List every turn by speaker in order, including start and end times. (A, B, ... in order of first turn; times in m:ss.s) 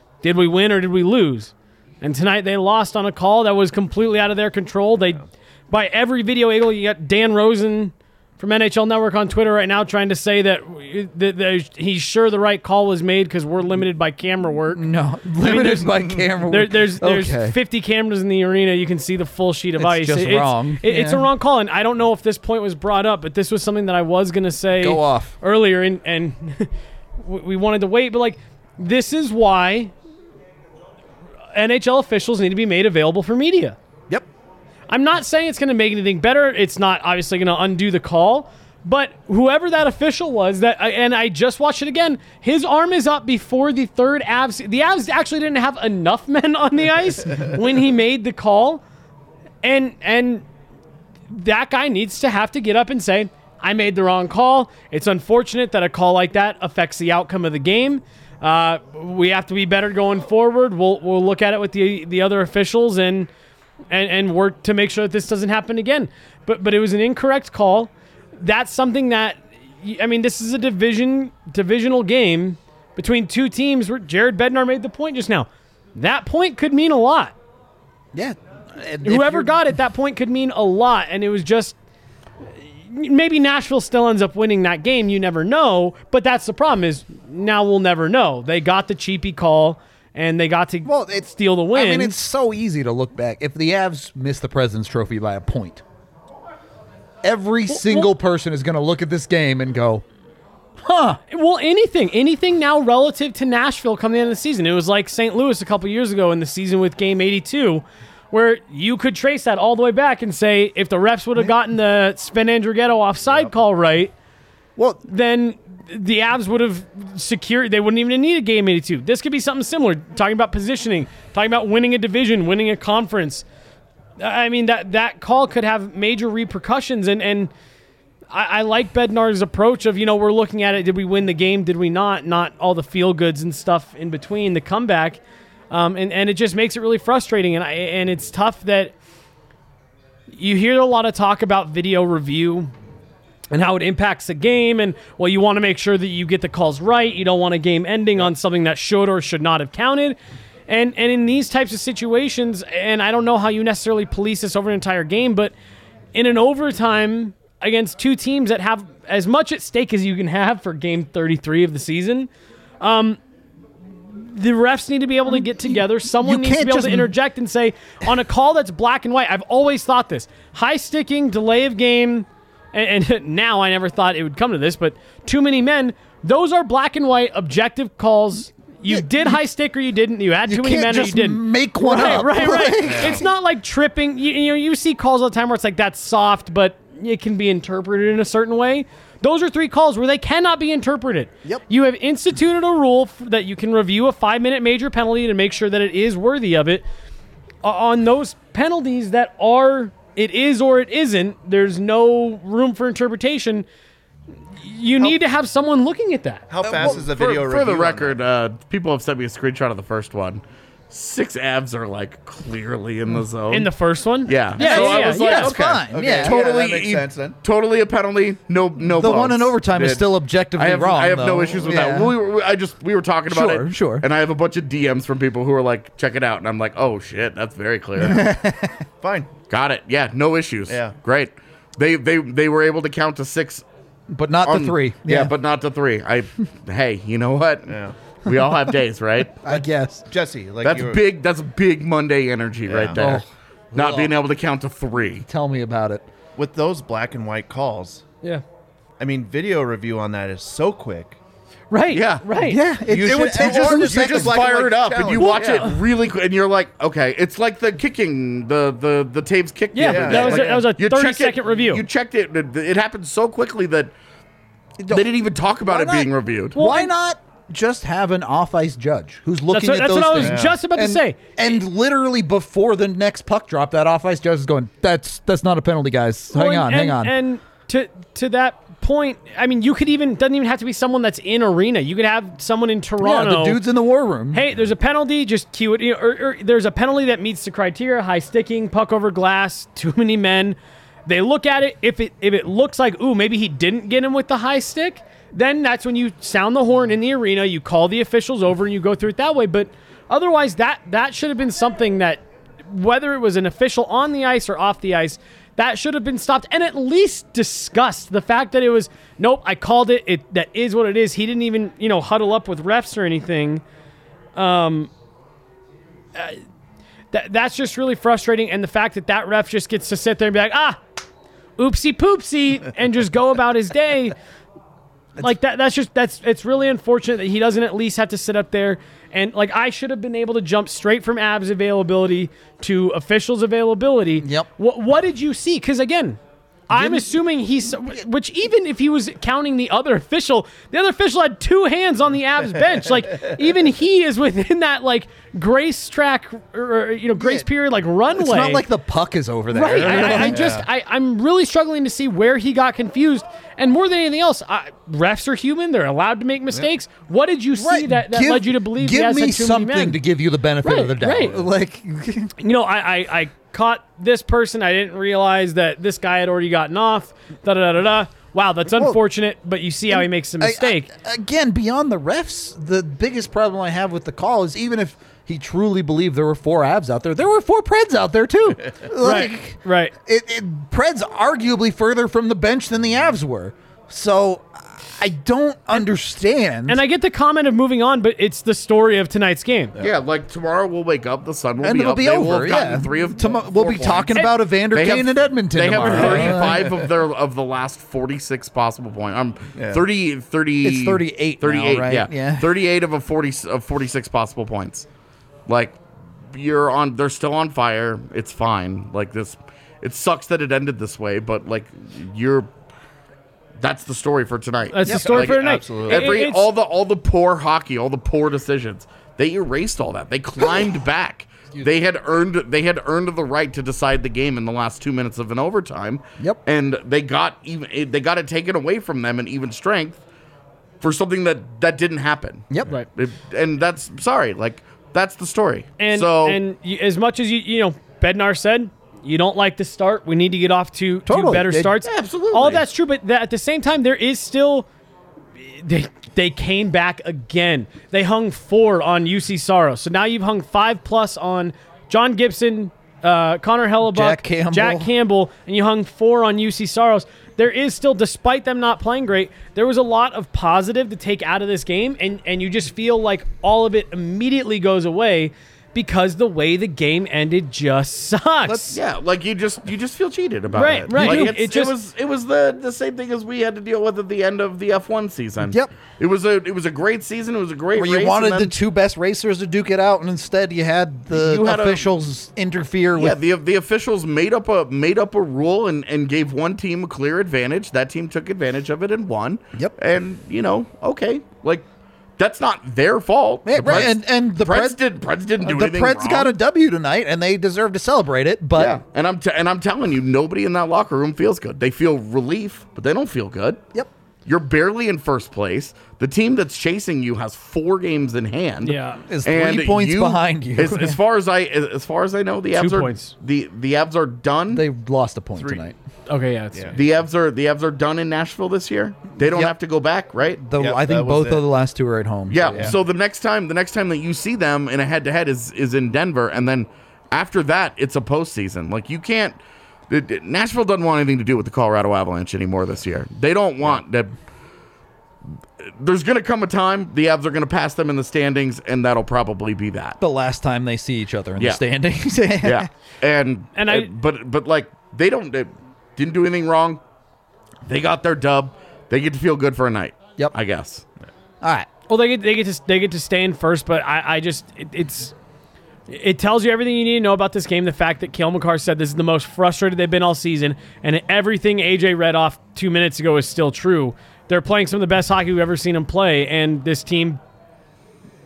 0:00.2-0:14.8 A
0:14.7-0:17.6 B
0:15.4-0:29.9 A
0:19.8-0:21.2 B
0:24.8-0:25.3 B
0:31.5-0:33.8 A
0:34.9-0:48.8 A
0:49.6-0:50.4 A
0:51.3-1:03.3 A
1:03.9-1:17.4 A
1:18.1-1:19.6 B
1:19.0-1:21.8 A
1:22.9-1:32.1 A
1:30.8-1:35.8 B
1:37.2-1:40.0 B
1:37.7-1:38.1 A
1:40.8-1:41.2 B
1:41.3-1:54.1 A
1:54.8-1:55.0 B
1:55.1-2:03.4 A
2:04.2-2:07.5 A
2:08.3-2:18.9 A
2:20.3-2:22.7 A
2:23.5-2:30.2 A
2:30.7-2:35.5 A
2:36.1-2:43.2 A
2:44.1-3:16.9 A
2:45.3-2:47.1 B
2:58.9-2:59.4 B
3:00.5-3:03.2 B
3:02.8-3:03.2 C
3:17.6-3:23.7 A
3:24.6-3:26.5 A
3:26.5-3:28.2 C
3:26.6-3:27.0 B
3:26.8-3:33.7 D
3:33.5-3:35.5 A
3:34.2-3:39.5 D
3:34.6-3:36.4 B
3:35.9-3:37.4 C
3:39.0-3:42.1 B
3:39.7-3:40.1 C
3:40.6-3:48.2 D
3:43.3-3:44.1 B
3:48.0-3:48.8 B
3:49.0-3:49.3 C
3:49.5-3:53.6 D
3:50.7-3:51.0 C
3:54.1-3:55.3 B
3:54.4-3:59.4 D
3:57.7-3:58.0 C
3:59.4-4:00.0 B
4:00.1-4:01.0 C
4:00.6-4:05.2 D
4:02.7-4:03.0 C
4:03.0-4:03.2 B
4:03.8-4:04.1 B
4:05.3-4:06.1 B
4:06.4-4:08.0 C
4:09.0-4:11.2 C
4:11.7-4:12.6 A
4:11.9-4:12.2 D
4:12.4-4:14.4 B
4:12.9-4:15.7 C
4:13.0-4:23.9 D
4:15.2-4:15.8 A
4:19.7-4:21.8 A
4:19.8-4:20.7 C
4:24.8-4:25.1 B
4:24.9-4:26.6 D
4:25.6-4:37.2 B
4:26.5-4:26.9 A
4:29.5-4:31.6 A
4:30.2-4:30.6 C
4:36.3-4:43.6 A
4:43.0-4:44.5 B
4:44.3-5:13.6 A
5:14.4-5:14.9 A
5:16.2-5:16.4 A
5:17.1-5:20.8 A
5:21.6-5:24.2 A
5:25.2-5:36.2 A
5:34.2-5:34.5 B
5:36.7-5:48.6 A
5:36.7-5:37.1 B
5:47.2-5:47.5 B
5:48.2-5:50.6 B
5:49.5-6:00.0 A
5:49.8-5:50.7 C
5:57.6-6:02.3 B
6:00.6-6:01.4 A
6:02.4-6:10.9 A
6:08.7-6:09.0 B
6:09.9-6:26.8 B
6:19.0-6:19.9 A
6:26.7-6:29.7 A
6:29.8-6:44.9 D
6:31.6-6:36.7 B
6:35.7-6:36.4 A
6:35.8-6:36.8 C
6:39.6-6:39.8 C
6:40.6-6:42.5 B
6:45.5-6:45.8 D
6:46.3-6:52.5 D
6:53.6-7:10.0 D
6:54.7-6:56.5 A
6:54.8-6:55.1 B
6:55.1-6:56.2 C
7:10.8-7:16.4 D
7:15.8-7:24.7 A
7:21.1-7:21.7 B
7:21.8-7:22.7 D
7:25.4-7:48.8 A
7:33.8-7:34.9 B
7:48.4-7:48.8 B
7:48.7-7:58.6 D
7:50.5-7:51.7 A
7:50.9-7:51.3 B
7:55.4-7:55.7 B
7:57.8-8:03.2 B
8:01.1-8:01.9 D
8:03.0-8:11.7 D
8:12.2-8:16.3 D
8:13.5-8:14.8 B
8:15.4-8:18.8 B
8:18.6-8:23.6 D
8:24.3-8:34.6 D
8:28.6-8:29.0 A
8:29.1-8:31.0 B
8:32.6-8:33.1 A
8:34.5-8:35.7 B
8:36.1-8:36.8 A
8:36.7-8:40.4 D
8:40.4-8:42.8 B
8:40.6-8:41.4 C
8:42.3-8:54.1 D
8:42.5-8:42.8 C
8:55.6-9:00.0 D
9:00.0-9:02.7 B
9:02.4-9:06.8 D
9:03.6-9:03.9 A
9:07.7-9:10.8 D
9:11.4-9:11.7 B
9:11.9-9:15.1 A
9:15.9-9:27.2 A